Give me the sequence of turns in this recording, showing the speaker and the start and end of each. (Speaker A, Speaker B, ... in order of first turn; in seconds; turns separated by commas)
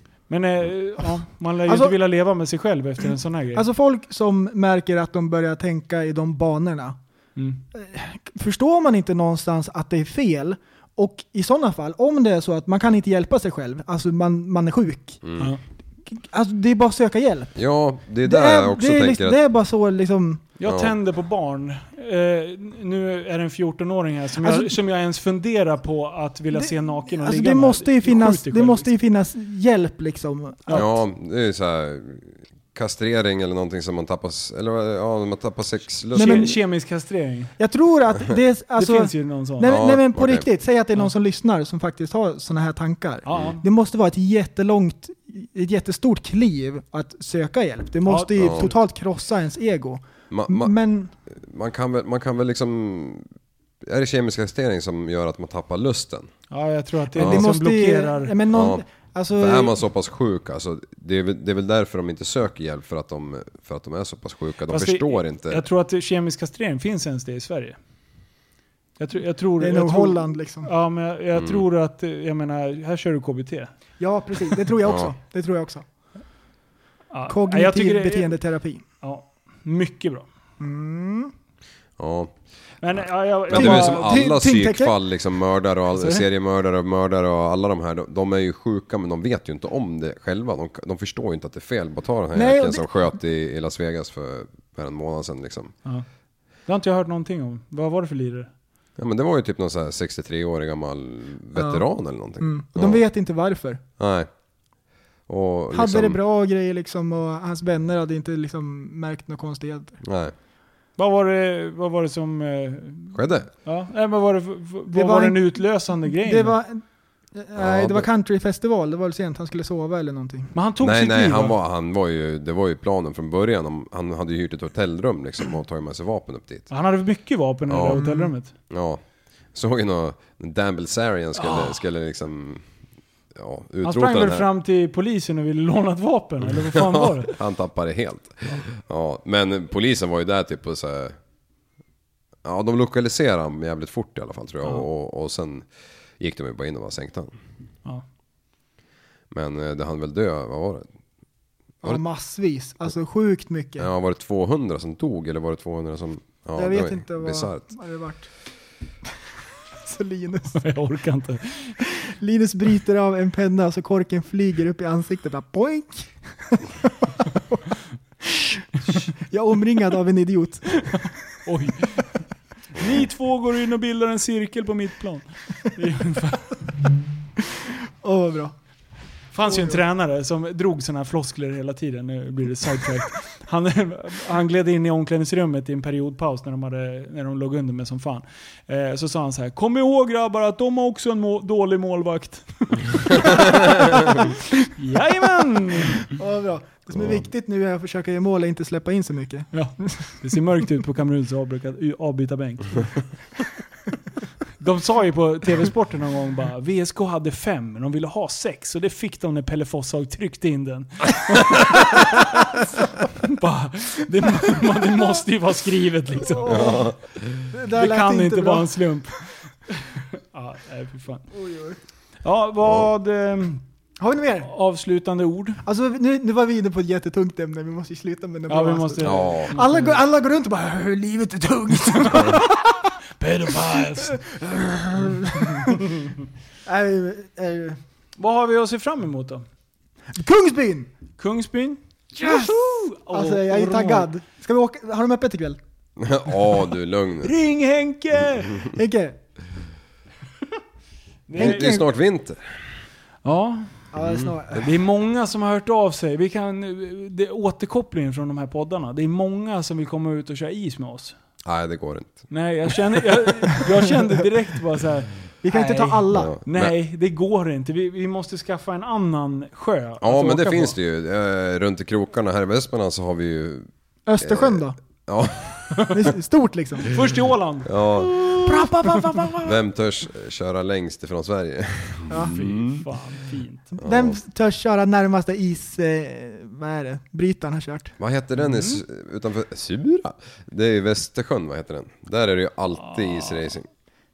Speaker A: 0.3-3.6, Speaker B: 1.7-2.0, Speaker B: 3.5-7.0, Speaker B: 7.7-15.2, Speaker C: 15.2-15.5, Speaker B: 16.1-17.6, Speaker C: 17.6-19.4, Speaker B: 18.2-20.4, Speaker A: 20.6-28.9, Speaker C: 20.7-20.9, Speaker B: 24.4-24.7, Speaker B: 26.5-30.9, Speaker C: 30.7-36.5, Speaker A: 36.1-37.5, Speaker B: 36.2-36.6, Speaker B: 37.6-51.1, Speaker A: 38.8-39.8, Speaker C: 39.6-40.5, Speaker A: 43.2-43.6, Speaker A: 48.1-48.7, Speaker C: 48.4-48.7, Speaker C: 50.3-50.7, Speaker C: 51.3-53.3, Speaker C: 53.8-56.3, Speaker A: 56.5-58.4, Speaker B: 57.1-59.8, Speaker C: 57.2-57.5, Speaker C: 58.5-58.8, Speaker C: 59.4-65.6, Speaker A: 64.7-67.8, Speaker A: 69.0-73.7, Speaker B: 69.6-70.7, Speaker C: 71.3-71.6, Speaker B: 74.0-75.8, Speaker C: 74.8-75.1, Speaker A: 77.1-78.4, Speaker B: 77.3-78.8, Speaker A: 79.0-80.3, Speaker B: 80.6-81.3, Speaker C: 82.0-82.3, Speaker A: 82.8-84.2, Speaker C: 83.0-95.7, Speaker B: 83.5-85.0, Speaker A: 86.0-86.2, Speaker B: 92.3-92.9, Speaker A: 96.7-98.5, Speaker C: 99.0-103.0, Speaker B: 101.6-101.8, Speaker B: 102.4-103.8, Speaker C: 104.0-104.3, Speaker C: 105.3-106.2, Speaker B: 105.7-110.0, Speaker C: 110.0-110.3, Speaker A: 111.0-116.6, Speaker C: 113.1-113.5, Speaker B: 114.9-116.8, Speaker B: 117.3-120.5, Speaker C: 117.6-118.1, Speaker A: 120.5-121.6, Speaker C: 120.8-126.7, Speaker A: 126.7-128.5, Speaker C: 127.7-128.0, Speaker B: 127.9-128.3, Speaker C: 128.7-129.0, Speaker C: 129.5-132.7, Speaker A: 131.4-131.8, Speaker C: 133.3-134.5, Speaker A: 133.8-137.4, Speaker C: 136.5-141.2, Speaker C: 142.4-145.7, Speaker C: 146.2-147.3, Speaker C: 149.3-150.9, Speaker B: 151.8-153.9, Speaker C: 153.8-157.6, Speaker B: 156.6-158.3, Speaker B: 159.8-160.6, Speaker A: 160.6-161.8, Speaker B: 161.8-167.6, Speaker B: 168.3-168.6, Speaker B: 169.2-170.9, Speaker A: 170.7-172.1, Speaker A: 172.7-176.6, Speaker B: 177.5-178.5, Speaker A: 179.3-196.1, Speaker B: 179.5-179.8, Speaker B: 195.9-200.1, Speaker A: 199.5-203.0, Speaker A: 204.6-216.9, Speaker B: 216.2-216.9, Speaker C: 216.5-217.5, Speaker B: 217.5-218.7, Speaker A: 217.7-221.3, Speaker B: 221.3-221.8, Speaker A: 222.2-223.6, Speaker B: 224.0-224.5, Speaker A: 224.4-225.6, Speaker B: 225.6-233.0, Speaker A: 228.5-229.9, Speaker C: 229.0-229.6, Speaker A: 232.0-232.4, Speaker A: 233.2-234.2, Speaker B: 233.6-236.0, Speaker A: 235.5-236.1, Speaker B: 236.7-237.8, Speaker A: 238.2-239.4, Speaker B: 240.2-240.9, Speaker A: 241.2-244.1, Speaker B: 242.2-245.6, Speaker C: 246.0-247.3, Speaker A: 247.2-248.7, Speaker B: 248.6-249.2, Speaker A: 251.3-251.8, Speaker C: 251.4-252.6, Speaker B: 251.4-251.8, Speaker A: 253.2-253.8, Speaker B: 253.9-254.7, Speaker C: 254.0-254.3, Speaker A: 254.6-261.1, Speaker C: 261.4-262.3, Speaker A: 262.3-270.8, Speaker B: 265.4-266.4, Speaker C: 266.1-266.7, Speaker C: 270.0-273.7, Speaker B: 274.1-274.8, Speaker C: 274.2-276.1, Speaker B: 275.9-276.9, Speaker A: 276.9-278.0, Speaker C: 277.6-278.7, Speaker B: 278.3-279.6, Speaker A: 278.9-279.2, Speaker C: 279.4-282.9, Speaker B: 282.1-282.4, Speaker A: 282.2-283.7, Speaker B: 283.8-288.0, Speaker C: 283.8-284.2, Speaker C: 288.0-293.7, Speaker A: 288.4-288.8, Speaker A: 292.8-293.5